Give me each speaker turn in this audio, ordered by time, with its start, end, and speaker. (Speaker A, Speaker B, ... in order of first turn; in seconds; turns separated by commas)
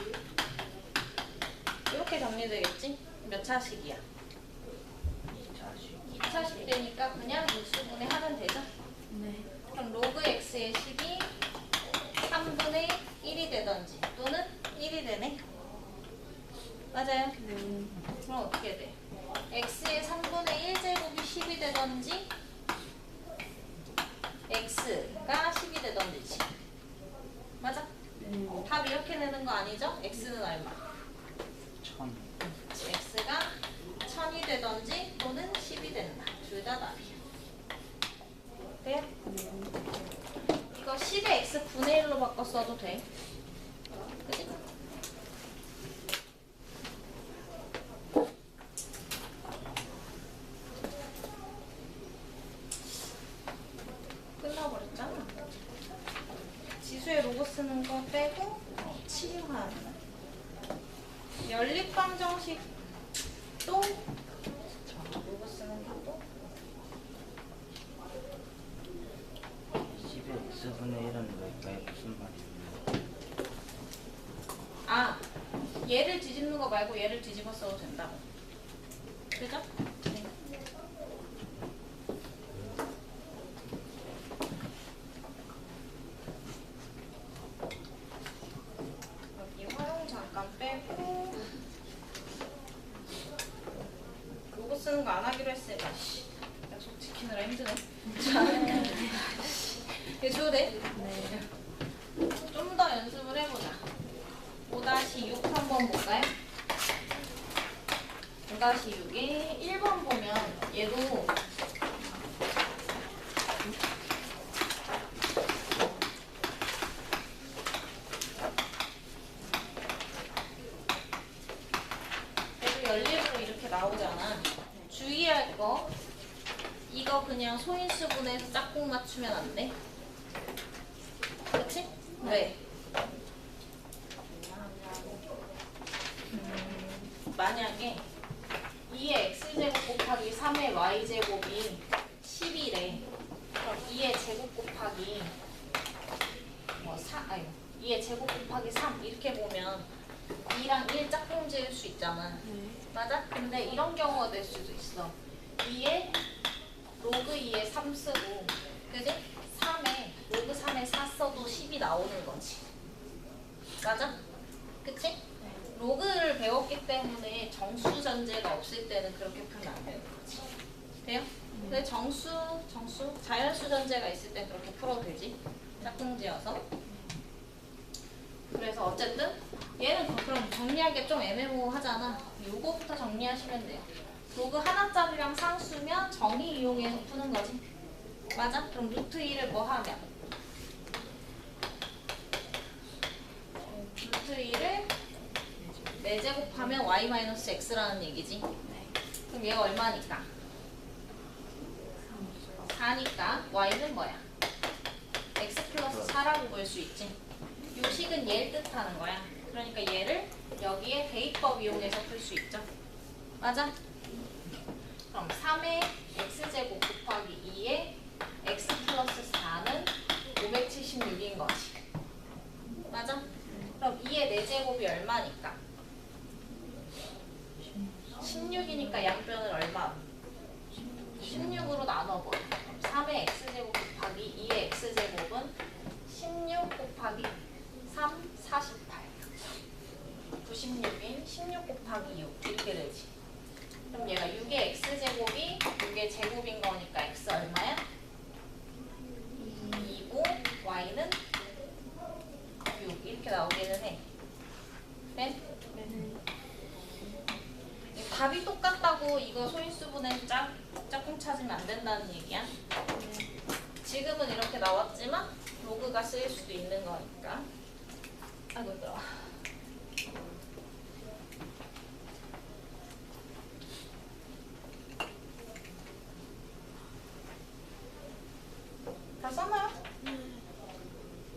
Speaker A: 1.9-4.0, Speaker B: 5.3-6.2, Speaker A: 6.1-8.7, Speaker C: 9.1-9.5, Speaker A: 9.7-11.3, Speaker A: 12.2-15.4, Speaker A: 16.9-17.4, Speaker C: 17.4-18.0, Speaker A: 18.2-19.0, Speaker A: 19.5-22.3, Speaker A: 24.5-26.5, Speaker A: 27.6-27.9, Speaker C: 28.2-28.7, Speaker A: 28.6-30.9, Speaker B: 31.8-32.3, Speaker A: 32.6-37.2, Speaker A: 38.8-39.1, Speaker C: 39.2-39.8, Speaker A: 40.7-43.0, Speaker A: 44.2-44.6, Speaker A: 54.4-55.4, Speaker A: 56.8-60.0, Speaker A: 61.4-62.7, Speaker A: 63.6-64.0, Speaker A: 64.9-66.2, Speaker B: 69.8-73.0, Speaker A: 74.9-75.2, Speaker A: 75.8-78.2, Speaker A: 79.3-80.3, Speaker A: 89.3-91.5, Speaker A: 94.5-100.9, Speaker C: 98.7-99.0, Speaker C: 100.9-101.5, Speaker A: 102.5-103.9, Speaker A: 104.7-106.3, Speaker A: 108.5-111.3, Speaker A: 122.6-125.9, Speaker A: 126.9-129.7, Speaker A: 131.5-132.6, Speaker C: 134.4-135.2, Speaker A: 136.3-138.0, Speaker A: 138.9-143.1, Speaker A: 143.6-145.3, Speaker A: 146.8-149.9, Speaker A: 150.4-156.2, Speaker C: 152.4-152.8, Speaker A: 157.0-162.7, Speaker A: 163.8-164.2, Speaker A: 164.8-165.2, Speaker A: 165.7-170.5, Speaker A: 171.0-176.6, Speaker C: 171.5-171.8, Speaker A: 178.5-187.6, Speaker A: 188.3-190.1, Speaker A: 193.7-194.9, Speaker C: 195.6-195.9, Speaker A: 196.0-198.5, Speaker C: 198.6-198.9, Speaker A: 199.3-200.3, Speaker C: 202.0-202.7, Speaker A: 202.7-204.2, Speaker A: 205.4-207.2, Speaker A: 207.7-212.7, Speaker A: 213.4-213.7, Speaker A: 215.1-221.8, Speaker A: 222.9-225.6, Speaker C: 227.8-228.8, Speaker A: 228.2-230.0, Speaker C: 230.7-231.3, Speaker A: 231.2-235.6, Speaker B: 231.2-231.8, Speaker A: 236.1-239.3, Speaker A: 240.4-243.1, Speaker A: 243.9-247.8, Speaker C: 249.4-249.9, Speaker A: 249.6-251.2, Speaker A: 252.7-254.0, Speaker C: 255.7-256.2, Speaker A: 257.9-262.5, Speaker C: 262.9-263.3, Speaker A: 263.8-267.5, Speaker A: 268.6-269.1, Speaker A: 279.2-279.8, Speaker C: 280.0-280.4